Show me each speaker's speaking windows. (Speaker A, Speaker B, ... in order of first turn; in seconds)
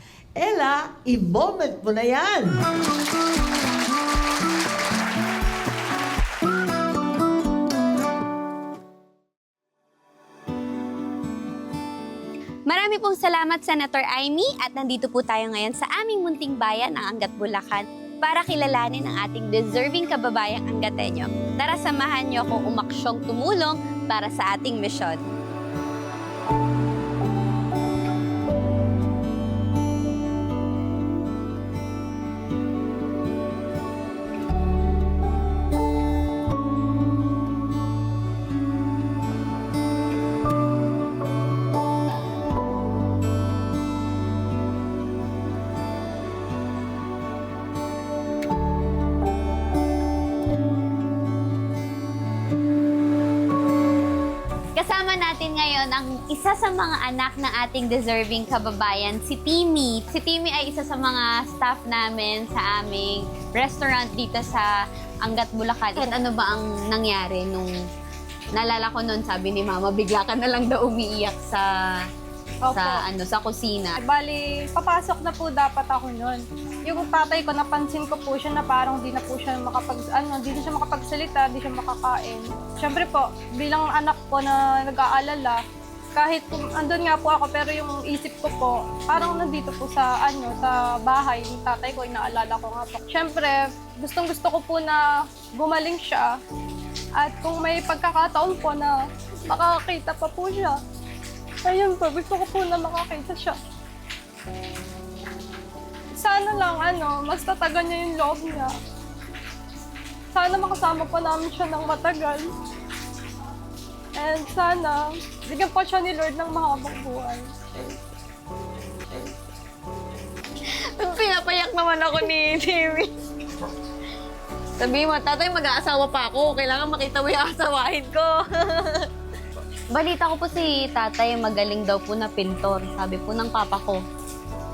Speaker A: 0.4-2.6
Speaker B: 12.7-25.3, 54.8-64.7, 65.2-67.7, 68.6-71.7, 72.7-74.0, 121.0-123.1, 124.8-129.1, 129.9-134.0
Speaker C: 72.7-73.0, 74.0-85.6, 86.2-95.0, 95.6-96.4, 97.2-99.0, 99.5-100.8, 101.7-103.6, 106.2-108.7, 110.3-112.5, 114.2-117.5